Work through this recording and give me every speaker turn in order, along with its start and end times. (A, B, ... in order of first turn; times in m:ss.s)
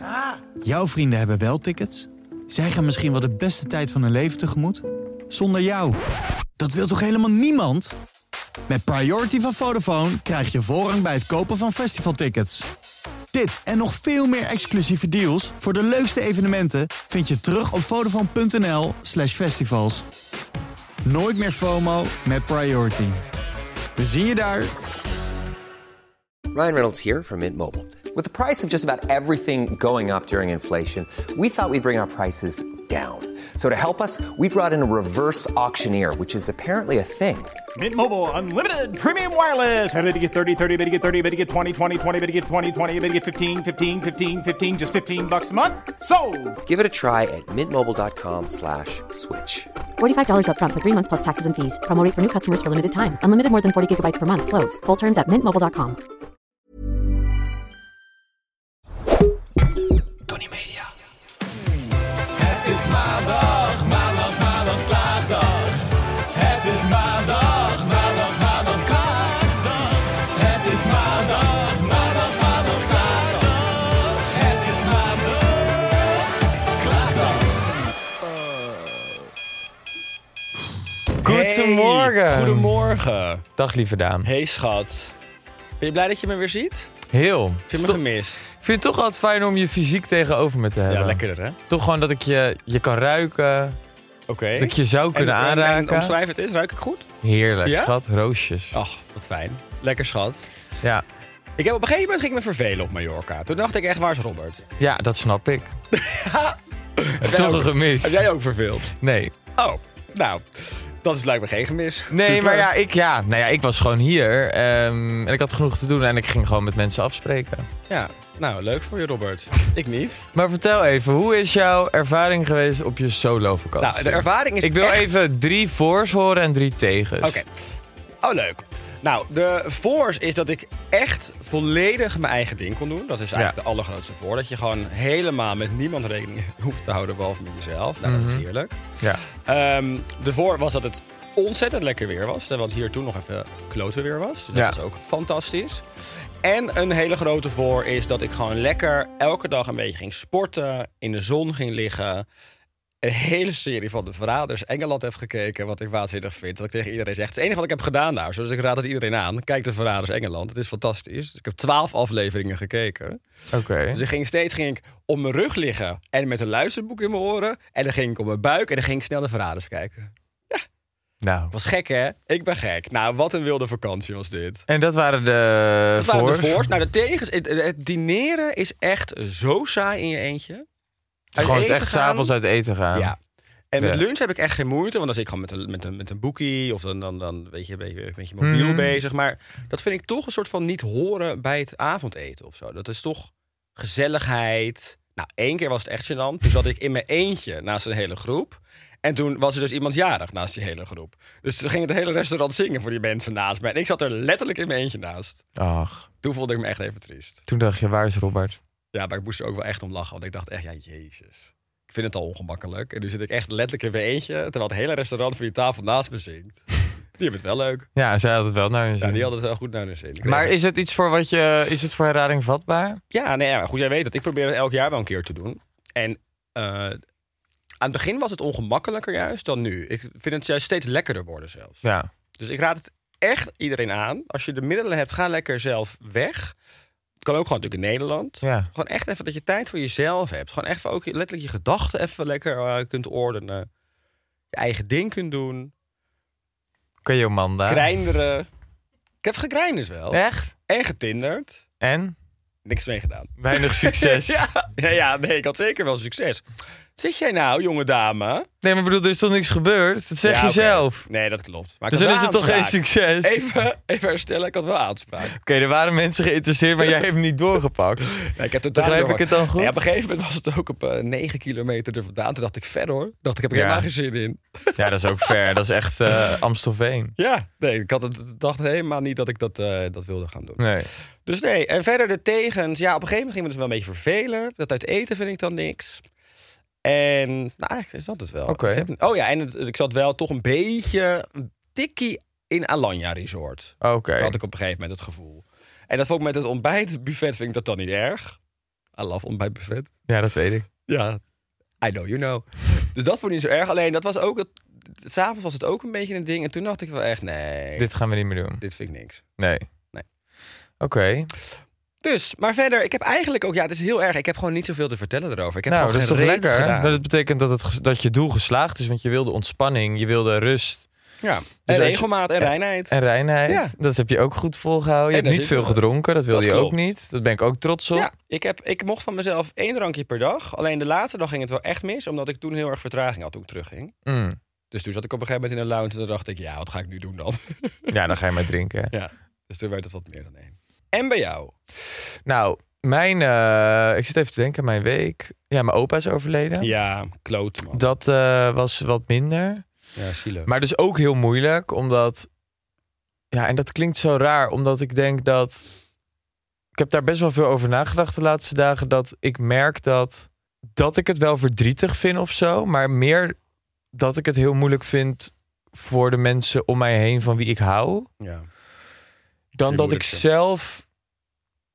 0:00.6-0:06.0 A
0:06.6-0:07.9 A
0:08.7-0:12.7 A
0:13.3-0:20.0 A
0:21.0-0:23.2 A
0:24.0-0:24.8 A
0:26.5-0:37.6 B
0:37.8-0:46.6 C
0:46.6-0:49.7 B
0:50.0-0:56.0 D
1:00.3-1:00.9 E
1:02.4-1:15.7 E
1:16.8-1:17.1 E
1:21.2-1:23.4 F
1:21.2-1:23.0 E
1:23.6-1:24.3 E
1:24.2-1:25.1 F
1:25.8-1:26.9 F
1:27.1-1:28.0 E
1:27.7-1:28.4 F
1:28.5-1:33.8 E
1:30.9-1:31.6 F
1:34.3-1:37.1 F
1:34.6-1:36.1 E
1:37.2-1:38.8 E
1:37.6-1:37.9 F
1:38.7-1:40.5 F
1:41.6-1:44.6 F
1:44.8-1:45.7 E
1:45.9-1:48.9 F
1:47.2-1:48.3 E
1:49.0-1:49.3 E
1:49.6-1:52.7 F
1:52.1-1:57.7 E
1:57.9-2:00.2 F
2:00.3-2:07.4 E
2:03.8-2:05.2 F
2:07.2-2:25.8 F
2:18.0-2:18.4 E
2:26.4-2:32.2 F
2:33.0-2:43.2 F
2:43.5-2:44.0 E
2:43.9-2:50.6 F
2:51.2-2:51.5 E
2:51.5-2:54.6 F
2:54.7-2:56.7 E
2:56.0-3:00.6 F
3:01.4-3:03.1 E
3:01.4-3:02.3 F
3:03.7-3:25.4 F
3:08.4-3:09.0 E
3:25.6-3:26.1 E
3:26.2-3:27.4 F
3:27.5-3:28.6 E
3:28.9-3:36.6 F
3:37.2-3:37.9 F
3:38.0-3:39.3 E
3:39.0-3:40.5 F
3:40.2-3:43.0 E
3:43.1-3:47.0 F
3:47.8-3:56.5 F
3:57.2-4:03.7 F
3:58.4-3:58.7 E
4:04.5-4:05.7 F
4:07.0-4:07.9 E
4:07.7-4:08.5 F
4:09.2-4:11.6 F
4:10.1-4:10.5 E
4:11.8-4:12.1 E
4:12.6-4:16.4 F
4:13.4-4:14.4 E
4:17.0-4:18.5 F
4:18.6-4:21.0 E
4:20.2-4:25.4 F
4:21.9-4:23.4 E
4:25.3-4:28.2 E
4:28.2-4:35.3 F
4:28.7-4:29.8 E
4:33.5-4:33.9 E
4:34.8-4:37.1 E
4:37.2-4:40.6 F
4:40.6-4:40.9 E
4:41.2-4:46.0 F
4:46.8-4:58.4 F
4:48.5-4:48.9 E
4:53.8-4:54.4 E
4:59.0-4:59.9 F
5:00.1-5:00.7 E
5:00.9-5:01.2 F
5:01.8-5:07.9 F
5:07.8-5:08.6 E
5:08.6-5:09.2 F
5:09.4-5:09.6 E
5:10.8-5:11.3 E
5:12.0-5:17.0 F
5:15.7-5:20.9 E
5:21.2-5:23.0 F
5:21.6-5:28.1 E
5:23.5-5:23.7 F
5:25.1-5:26.8 F
5:27.9-5:33.9 F
5:34.0-5:34.4 E
5:34.7-5:37.9 F
5:37.9-5:38.9 E
5:38.9-5:41.6 F
5:42.2-5:46.7 E
5:46.6-5:47.8 F
5:47.7-5:49.6 E
5:50.0-5:50.5 F
5:50.4-5:52.3 E
5:53.3-5:55.7 E
5:56.7-6:03.4 E
6:03.9-6:08.1 E
6:08.2-6:08.5 F
6:09.5-6:10.8 E
6:09.7-6:10.2 F